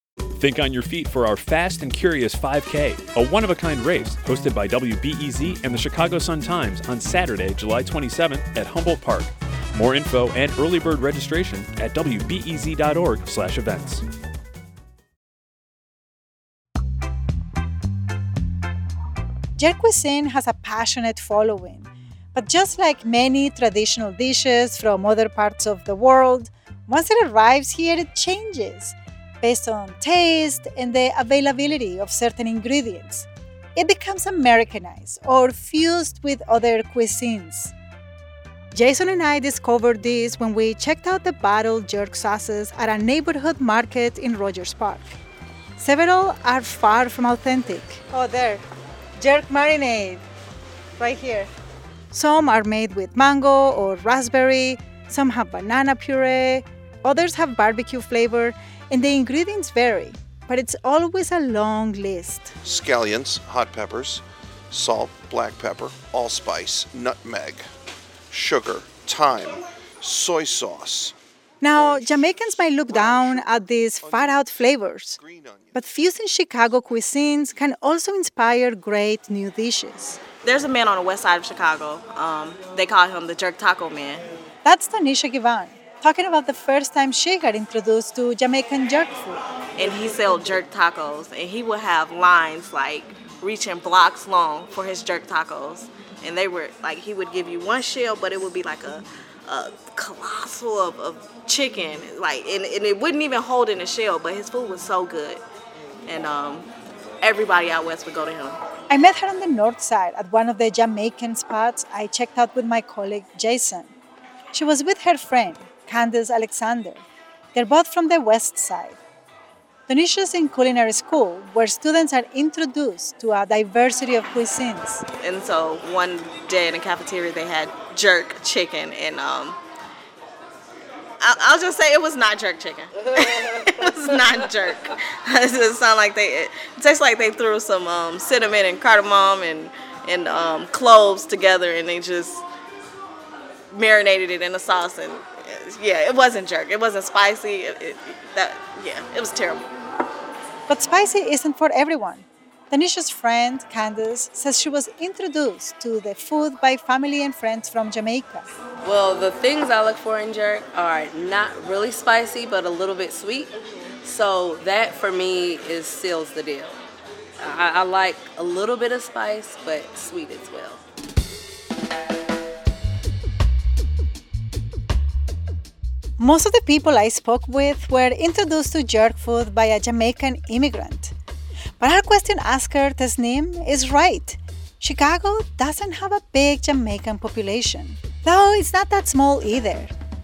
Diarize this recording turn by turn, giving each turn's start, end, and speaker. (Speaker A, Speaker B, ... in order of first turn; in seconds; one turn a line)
Speaker A: 0.4-14.0
Speaker B: 19.6-37.7
Speaker B: 38.7-45.2
Speaker B: 45.8-48.6
Speaker B: 49.2-50.2
Speaker B: 51.0-51.5
Speaker B: 52.1-62.5
Speaker C: 62.6-67.7
Speaker C: 68.3-71.2
Speaker B: 71.6-75.2
Speaker C: 71.7-75.9
Speaker B: 75.7-80.2
Speaker D: 80.4-84.3
Speaker B: 84.6-89.4
Speaker D: 89.8-105.4
Speaker D: 106.1-106.7
Speaker D: 107.2-108.6
Speaker B: 108.9-113.9
Speaker B: 114.5-119.0
Speaker B: 119.9-125.0
Speaker D: 125.2-129.6
Speaker D: 131.2-142.4
Speaker D: 143.7-149.7
Speaker B: 150.7-158.5
Speaker E: 158.8-166.8
Speaker E: 167.4-170.8
Speaker B: 176.2-181.1
Speaker B: 181.8-189.9